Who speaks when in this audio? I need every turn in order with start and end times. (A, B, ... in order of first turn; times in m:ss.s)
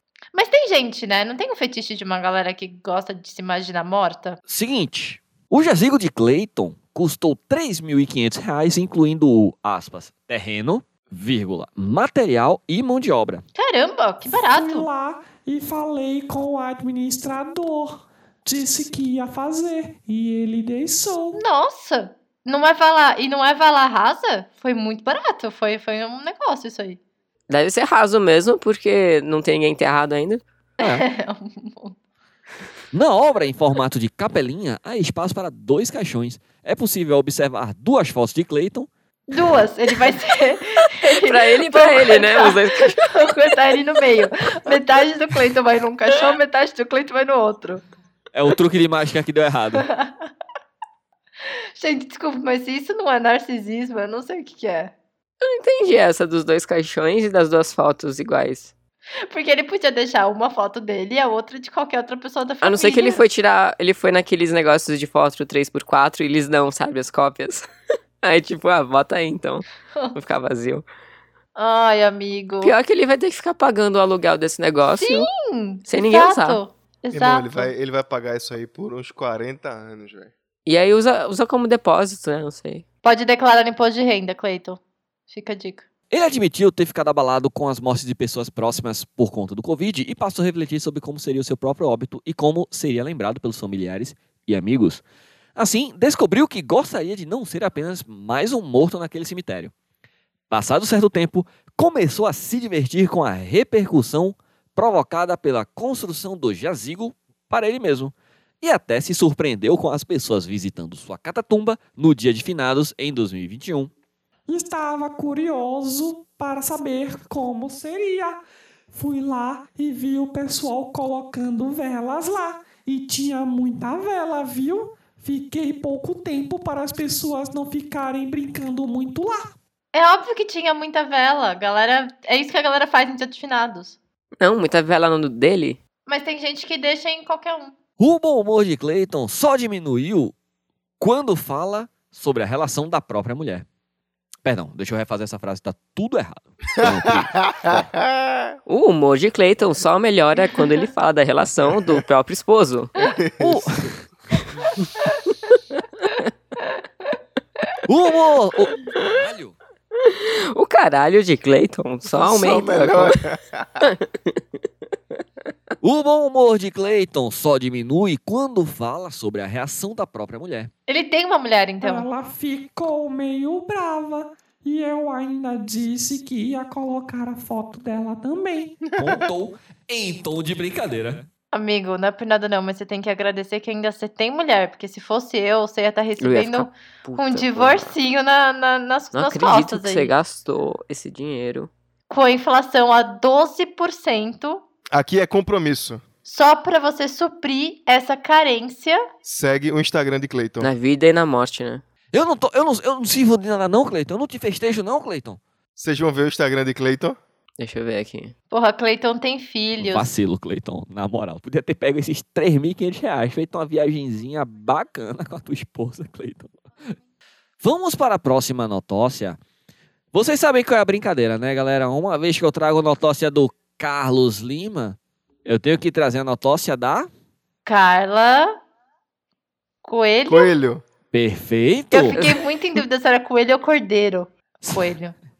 0:00.3-0:04.4 A
0:04.5-0:13.4 B
0:13.5-0:14.9 A
0:14.2-0:21.4 C
0:21.3-0:27.0 A
0:27.5-0:30.4 D
0:30.8-0:32.0 A
0:32.9-0:38.9 B
0:39.3-0:47.8 A
0:41.0-0:43.2 D
0:48.3-0:49.8 B
0:49.8-0:50.3 A
0:51.8-0:54.9 A
0:55.4-0:58.7 D
0:59.3-1:03.2 A
1:02.6-1:07.6 D
1:08.2-1:10.8 D
1:11.6-1:12.7 A
1:12.6-1:15.3 D
1:14.9-1:17.7 A
1:15.9-1:16.6 D
1:17.1-1:20.3 E
1:20.6-1:22.8 D
1:23.0-1:25.8 A
1:26.1-1:35.0 B
1:35.6-1:39.7 B
1:40.5-1:53.9 B
1:54.5-2:09.5 C
2:09.9-2:14.0 A
2:14.4-2:15.8 D
2:16.0-2:17.7 A
2:18.0-2:20.3 B
2:21.0-2:23.6 B
2:24.4-2:27.9 B
2:26.8-2:28.5 E
2:28.7-2:32.9 D
2:33.0-2:33.9 E
2:33.4-2:34.0 B
2:37.9-2:39.6 B
2:40.0-2:43.2 D
2:42.1-2:43.9 E
2:43.8-2:44.4 D
2:45.8-2:50.7 B
2:50.9-2:52.1 A
2:51.8-2:58.9 C
2:58.9-3:01.3 B
3:01.5-3:10.1 A
3:06.2-3:07.9 D
3:09.1-3:11.7 D
3:12.1-3:14.6 A
3:14.9-3:16.0 E
3:16.2-3:19.0 A
3:19.2-3:20.7 E
3:20.6-3:21.8 D
3:22.1-3:25.4 B
3:25.8-3:27.2 E
3:27.6-3:28.3 D
3:28.5-3:30.1 A
3:29.8-3:36.5 B
3:37.6-3:39.4 B
3:40.1-3:47.1 B
3:47.6-3:48.6 A
3:49.8-3:50.5 A
3:50.3-3:50.8 E
3:51.1-3:52.3 B
3:51.9-3:55.1 A